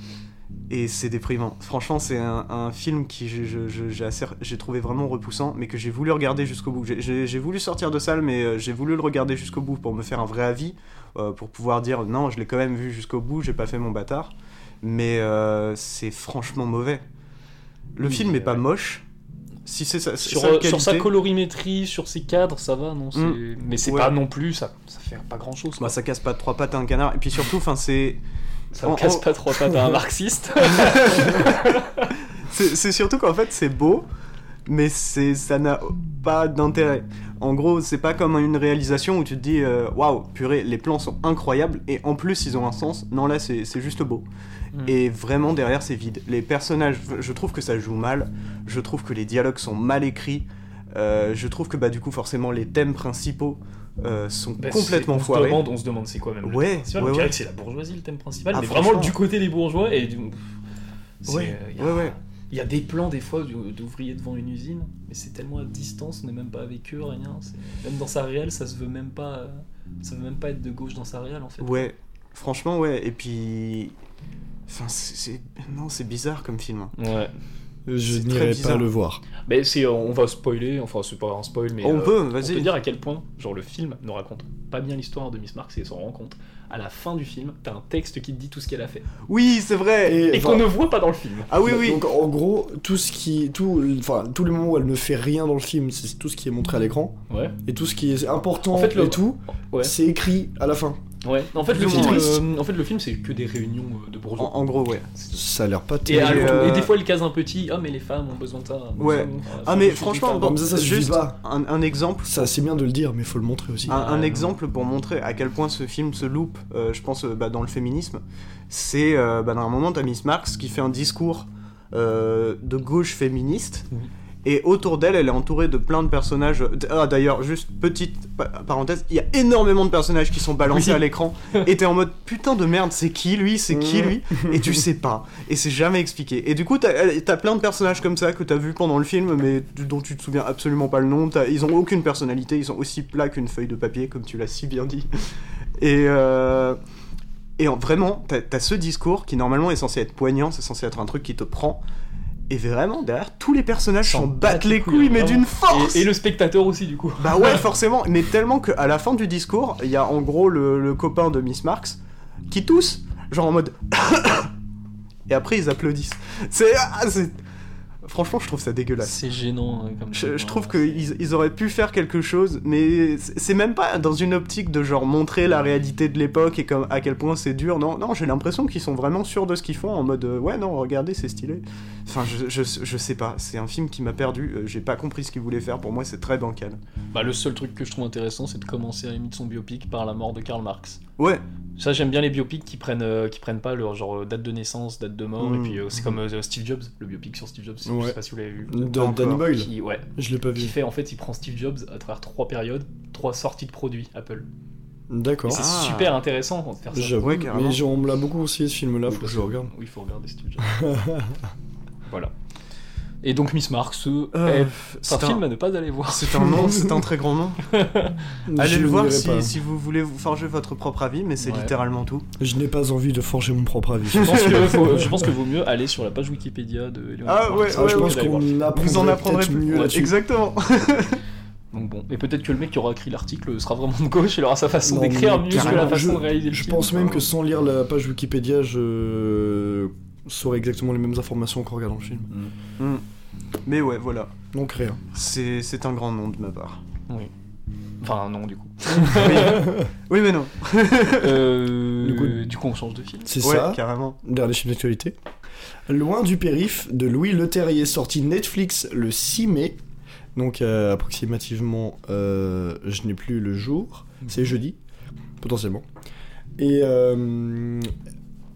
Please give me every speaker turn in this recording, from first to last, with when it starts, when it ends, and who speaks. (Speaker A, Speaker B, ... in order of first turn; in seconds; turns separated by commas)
Speaker A: 0.7-17.0, Speaker A: 17.9-19.0, Speaker B: 18.0-18.6, Speaker A: 19.6-21.1, Speaker B: 20.2-25.9, Speaker A: 23.1-24.1, Speaker A: 25.8-28.2, Speaker B: 28.7-32.1, Speaker A: 28.8-29.7, Speaker A: 30.6-31.6, Speaker A: 32.4-34.1, Speaker A: 34.7-44.2, Speaker A: 44.8-55.6, Speaker B: 54.6-60.4, Speaker A: 56.4-57.4, Speaker A: 58.5-59.1, Speaker B: 61.2-71.9, Speaker A: 61.3-62.1, Speaker A: 71.6-73.9, Speaker A: 74.7-76.9, Speaker B: 77.0-77.3, Speaker C: 77.9-79.2, Speaker A: 78.1-78.9, Speaker B: 79.5-89.1, Speaker A: 81.8-82.7, Speaker A: 89.3-90.3, Speaker C: 90.0-90.7, Speaker B: 90.2-91.5, Speaker A: 91.5-92.0, Speaker C: 91.6-101.0, Speaker B: 97.3-97.6, Speaker B: 98.7-99.9, Speaker B: 101.2-104.6, Speaker A: 101.7-102.4, Speaker C: 101.7-102.4, Speaker A: 104.4-105.1, Speaker C: 105.3-106.8, Speaker B: 106.0-110.7, Speaker A: 106.1-106.9, Speaker A: 109.0-112.5, Speaker C: 110.3-111.4, Speaker C: 112.2-114.0, Speaker B: 113.8-114.5, Speaker A: 113.9-123.9, Speaker A: 124.4-145.1, Speaker B: 130.7-131.0, Speaker C: 133.7-134.7, Speaker A: 145.8-146.8, Speaker A: 147.6-151.8, Speaker A: 152.5-156.1, Speaker B: 154.0-157.6, Speaker A: 157.2-164.5, Speaker A: 165.3-167.3, Speaker A: 168.0-169.2, Speaker B: 169.0-171.1, Speaker A: 170.1-186.8, Speaker B: 187.1-191.0, Speaker A: 191.2-191.4, Speaker B: 191.8-204.5, Speaker C: 195.4-195.7, Speaker C: 197.8-198.2, Speaker C: 198.7-200.7, Speaker A: 198.9-199.5, Speaker C: 205.1-205.6, Speaker B: 205.4-207.3, Speaker A: 205.5-206.2, Speaker C: 206.9-209.7, Speaker A: 207.2-207.8, Speaker B: 209.1-210.8, Speaker C: 210.7-211.3, Speaker B: 212.1-212.3, Speaker B: 213.2-216.8, Speaker A: 214.3-215.4, Speaker A: 216.1-217.7, Speaker C: 216.5-216.9, Speaker B: 217.7-218.2, Speaker C: 218.4-219.5, Speaker A: 218.5-222.2, Speaker B: 221.4-221.7, Speaker C: 222.4-225.2, Speaker A: 224.1-224.8, Speaker B: 224.2-228.7, Speaker A: 227.2-231.2, Speaker C: 227.7-230.2, Speaker B: 231.7-237.3, Speaker C: 234.8-242.3, Speaker A: 235.5-236.0, Speaker A: 243.7-244.3, Speaker C: 244.5-245.0, Speaker A: 245.1-246.8, Speaker B: 248.0-249.7, Speaker A: 249.1-251.4, Speaker C: 249.4-249.9, Speaker B: 251.2-253.3, Speaker C: 252.0-252.4, Speaker C: 253.2-255.1, Speaker A: 253.4-254.2, Speaker C: 255.9-259.8, Speaker C: 260.3-264.8, Speaker C: 265.4-265.8, Speaker C: 266.6-267.9